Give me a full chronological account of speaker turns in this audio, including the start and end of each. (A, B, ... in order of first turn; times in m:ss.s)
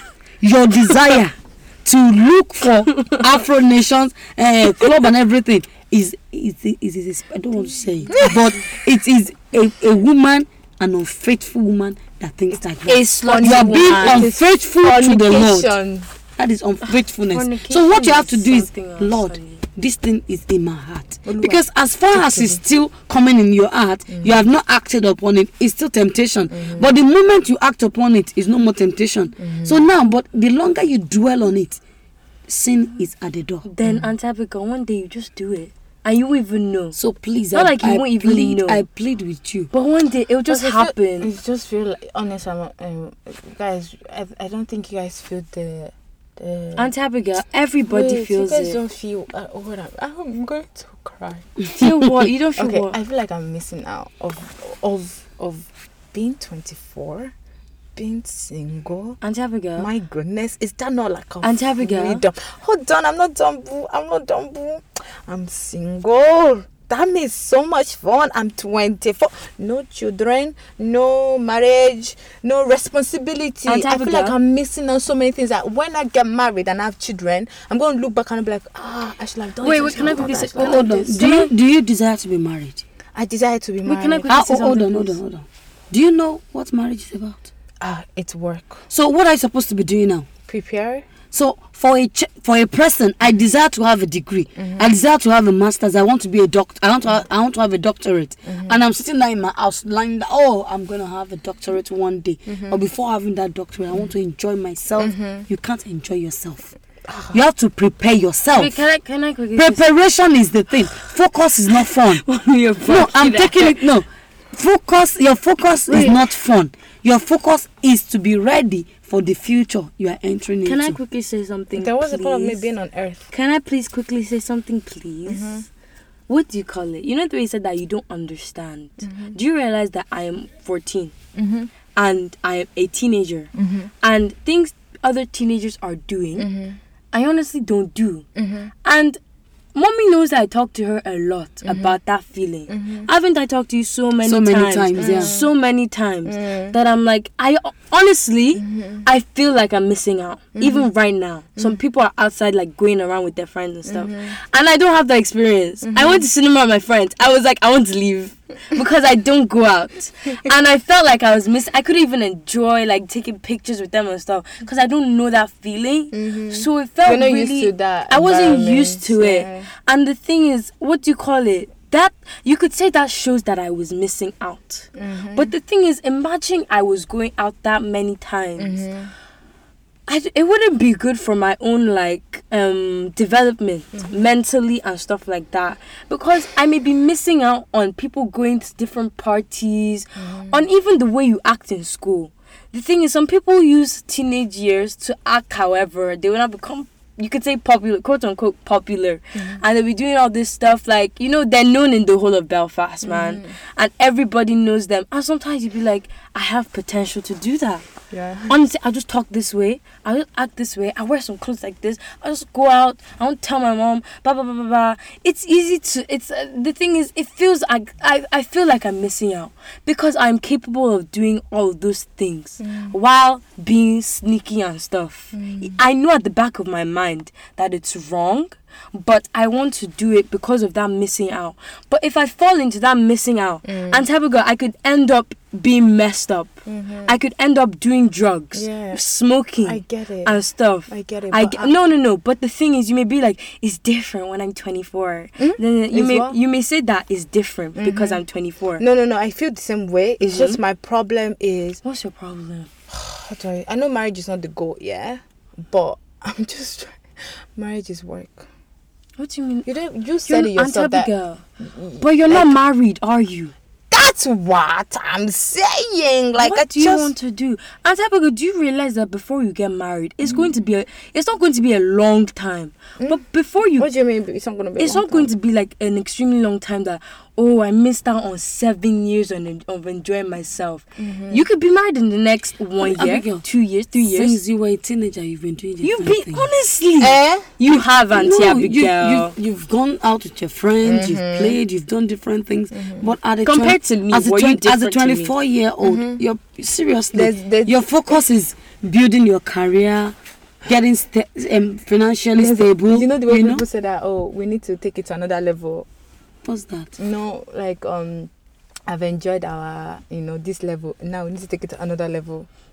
0:00.4-0:15.8 A
0:03.0-0:03.2 B
0:08.1-0:08.5 C
0:12.9-0:14.3 B
0:13.2-0:16.1 C
0:16.4-0:31.8 A
0:16.9-0:19.6 B
0:21.2-0:22.6 C
0:24.1-0:24.4 C
0:26.5-0:26.9 C
0:29.4-0:29.8 C
0:32.5-0:33.6 A
0:33.6-0:37.0 B
0:33.8-0:34.1 C
0:37.0-0:39.7 A
0:37.5-0:38.8 B
0:39.7-0:41.3 B
0:40.5-0:46.9 C
0:46.8-0:48.8 B
0:47.8-0:51.6 C
0:51.7-0:53.0 B
0:51.8-0:52.2 A
0:52.6-0:57.3 C
0:58.0-0:59.2 C
0:59.2-0:59.9 B
0:59.8-1:20.9 C
1:01.4-1:02.2 B
1:13.6-1:14.4 B
1:19.6-1:21.5 B
1:20.6-1:22.8 A
1:23.1-1:25.1 C
1:23.8-1:25.0 B
1:24.3-1:27.5 A
1:27.8-1:28.8 C
1:28.9-1:30.3 A
1:30.5-1:31.0 C
1:31.3-1:46.7 A
1:34.6-1:34.9 C
1:38.4-1:38.8 C
1:42.5-1:42.8 C
1:45.0-1:45.4 C
1:47.1-1:47.4 C
1:47.3-1:48.8 A
1:48.5-1:49.8 B
1:49.6-1:52.2 A
1:51.8-1:53.8 B
1:52.8-2:01.0 A
1:55.9-1:56.2 C
2:00.6-2:02.6 B
2:01.7-2:03.3 C
2:03.3-2:05.6 B
2:05.2-2:05.6 C
2:06.3-2:11.1 B
2:09.0-2:09.4 C
2:11.3-2:11.7 C
2:11.9-2:13.5 B
2:13.5-2:13.9 C
2:14.0-2:16.5 B
2:16.4-2:16.8 C
2:17.1-2:18.3 B
2:18.3-2:18.7 C
2:18.8-2:19.2 B
2:19.7-2:58.8 B
2:21.6-2:22.0 C
2:22.7-2:23.1 C
2:24.2-2:25.3 A
2:25.0-2:25.5 C
2:26.2-2:26.8 C
2:28.6-2:29.0 C
2:30.6-2:30.9 C
2:31.6-2:31.8 C
2:33.9-2:34.4 C
2:35.8-2:36.2 C
2:46.1-2:49.7 C
2:55.0-2:55.5 C
2:58.6-2:59.1 C
3:00.1-3:27.8 B
3:10.2-3:10.6 C
3:23.0-3:23.5 C
3:28.1-3:28.5 C
3:28.5-3:56.5 B
3:42.6-3:43.0 C
3:45.3-3:45.8 C
3:53.6-3:54.0 C
3:56.6-3:57.2 C
3:57.0-4:08.8 B
3:58.5-3:59.0 C
3:59.6-4:01.8 C
4:05.4-4:06.4 C
4:07.8-4:08.2 C
4:08.8-4:11.8 C
4:10.2-4:10.6 B
4:11.8-4:12.7 B
4:12.9-4:17.0 C
4:17.6-4:18.5 C
4:19.2-4:19.7 B
4:19.6-4:21.1 C
4:20.2-4:21.4 B
4:21.6-4:22.6 C
4:22.0-4:23.5 B
4:23.9-4:27.1 C
4:26.4-4:33.9 B
4:33.8-4:35.3 C
4:34.8-4:44.4 B
4:41.0-4:41.4 C
4:42.8-4:43.4 A
4:44.1-4:46.5 A
4:45.8-4:49.3 B
4:47.0-4:47.5 C
4:47.7-5:03.6 A
4:50.8-4:51.6 C
4:52.7-4:53.1 C
4:53.4-4:55.3 B
4:55.8-4:56.2 C
4:57.1-4:57.8 C
5:02.3-5:05.8 C
5:06.4-5:06.9 A
5:07.0-5:08.3 C
5:08.9-5:12.5 C